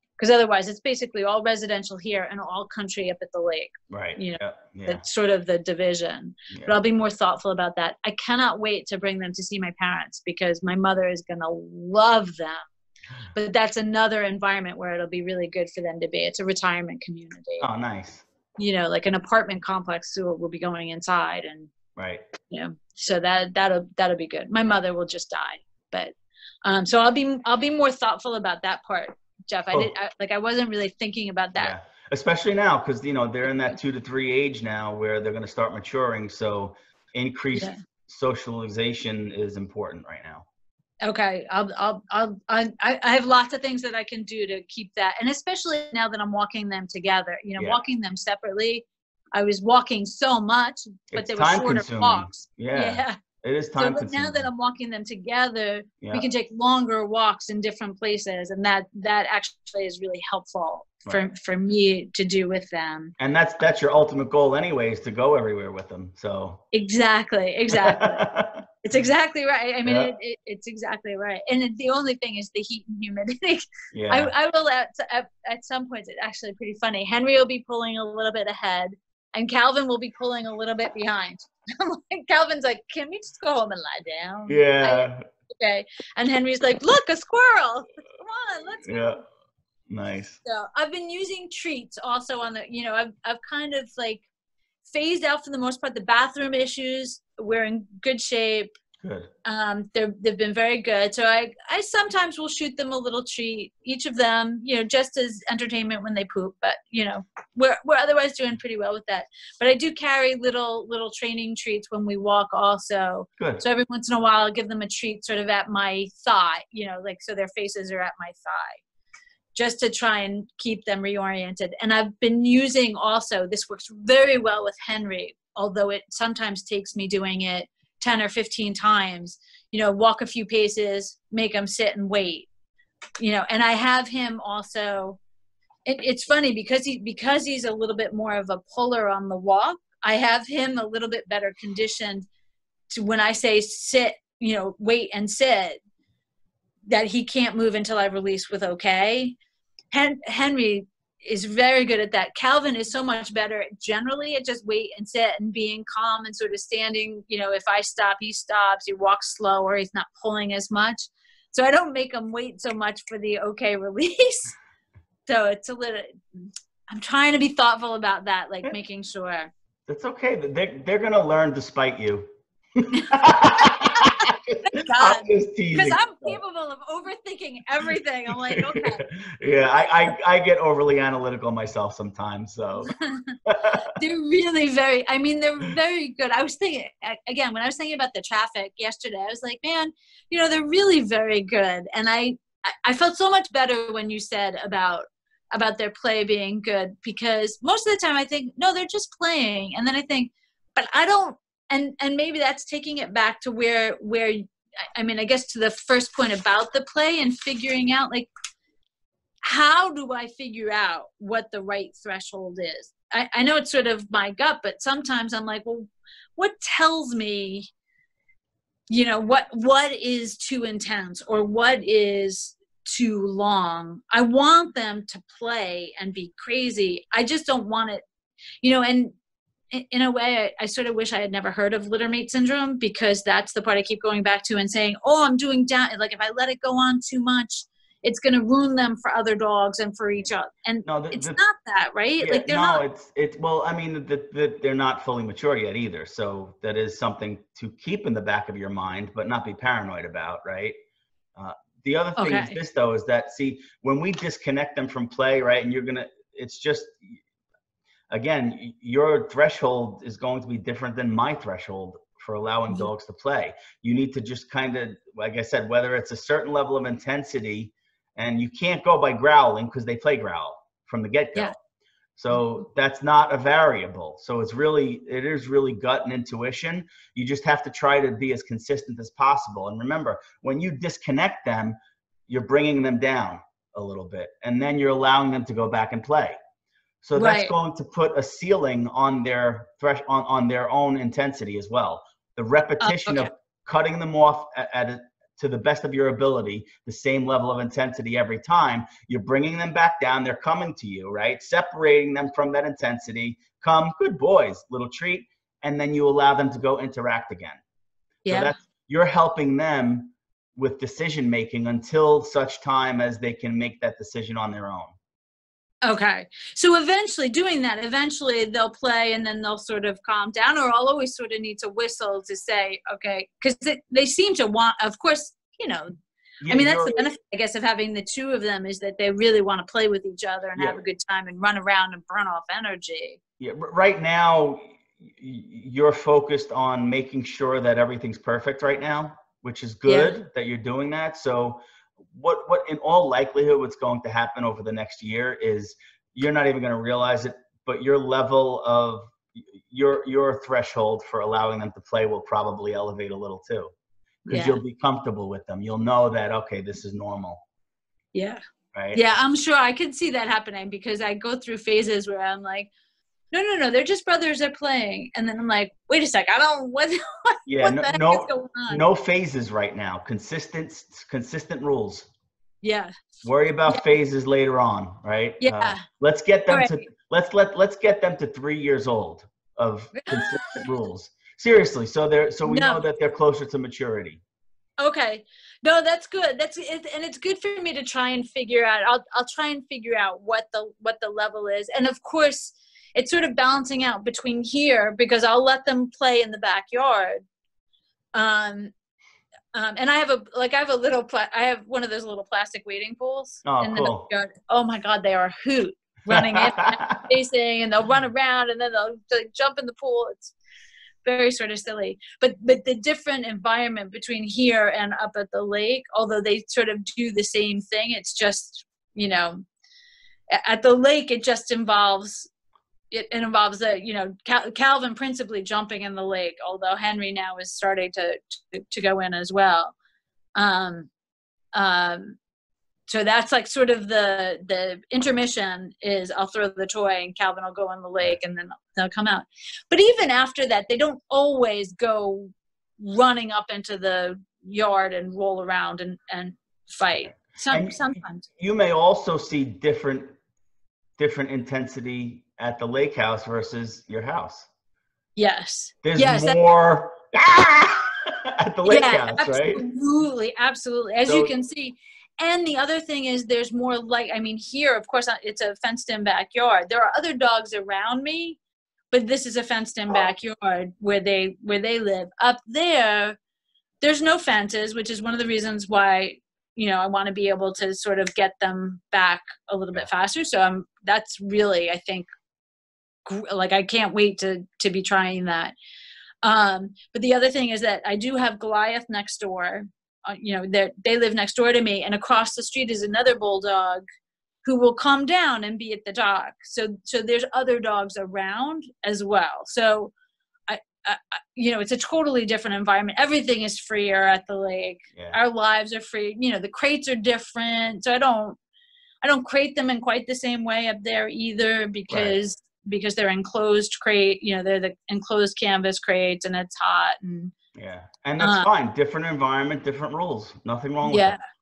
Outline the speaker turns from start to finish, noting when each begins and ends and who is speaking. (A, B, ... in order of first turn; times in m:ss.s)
0:00.2-0:12.6 A
0:03.9-0:05.0 B
0:06.5-0:06.8 B
0:13.4-0:17.6 A
0:17.6-0:18.2 B
0:18.6-0:21.7 A
0:22.0-0:22.3 B
0:22.4-0:26.1 A
0:26.6-0:31.7 A
0:31.6-0:40.4 B
0:41.0-0:53.2 A
0:51.1-0:54.5 B
0:53.8-1:03.1 A
0:56.0-0:56.3 B
1:03.2-1:06.6 B
1:06.7-1:08.3 A
1:07.7-1:08.7 B
1:08.8-1:29.2 A
1:09.8-1:10.1 B
1:13.9-1:14.3 B
1:24.5-1:25.3 B
1:28.8-1:29.2 B
1:29.9-1:30.4 B
1:30.4-1:34.2 A
1:34.9-1:38.7 A
1:39.0-1:39.3 B
1:39.4-1:58.8 A
1:53.4-1:53.6 B
1:59.6-2:12.5 A
2:13.2-2:15.2 A
2:15.9-2:22.3 A
2:22.9-2:25.8 A
2:26.9-2:29.4 A
2:29.9-2:44.6 A
2:45.3-2:49.5 A
2:49.9-2:56.4 B
2:52.9-2:59.0 A
2:58.3-3:02.9 B
3:02.8-3:03.4 A
3:03.4-3:03.9 B
3:04.0-3:28.3 A
3:29.4-3:37.7 A
3:38.9-3:48.0 A
3:48.6-3:49.1 A
3:49.7-4:02.8 A
4:00.9-4:01.4 B
4:02.2-4:10.8 B
4:11.4-4:17.2 B
4:12.2-4:12.6 A
4:18.1-4:31.6 B
4:32.2-4:41.8 B
4:42.3-4:46.4 B
4:47.0-5:07.6 B
4:47.2-4:47.5 A
4:52.8-4:53.3 A
5:08.2-5:08.5 A
5:08.3-5:14.9 B
5:15.8-5:25.9 A
5:26.4-5:27.1 B
5:26.5-5:33.2 A
5:33.4-5:41.6 B
5:39.9-5:40.1 A
5:42.1-5:53.7 B
5:54.2-5:57.4 B
5:54.3-5:54.6 A
5:58.1-5:58.4 A
5:58.7-5:59.0 B
5:59.0-6:02.7 A
6:03.3-6:08.8 A
6:07.5-6:12.1 B
6:12.6-6:12.9 A
6:13.2-6:24.2 B
6:15.4-6:15.8 A
6:16.5-6:16.8 A
6:20.0-6:20.6 A
6:22.4-6:22.8 A
6:24.8-6:37.2 A
6:38.1-6:38.7 A
6:39.5-6:50.3 A
6:43.4-6:44.1 B
6:46.1-6:47.1 B
6:51.0-6:59.4 A
7:00.3-7:02.3 A
7:02.9-7:09.7 A
7:10.4-7:10.9 A
7:11.5-7:12.2 A
7:12.9-7:28.2 A
7:27.0-7:30.1 B
7:31.0-7:34.5 B
7:35.2-7:36.4 A
7:35.8-7:39.6 B
7:38.7-7:48.4 A
7:41.0-7:41.3 B
7:48.9-7:53.2 A
7:53.8-8:02.0 A
8:03.0-8:05.6 A
8:06.2-8:13.8 A
8:14.4-8:19.9 A
8:20.5-8:28.4 A
8:29.0-8:37.3 A
8:31.9-8:32.2 B
8:37.6-8:41.2 B
8:38.2-8:38.5 A
8:40.8-8:41.2 A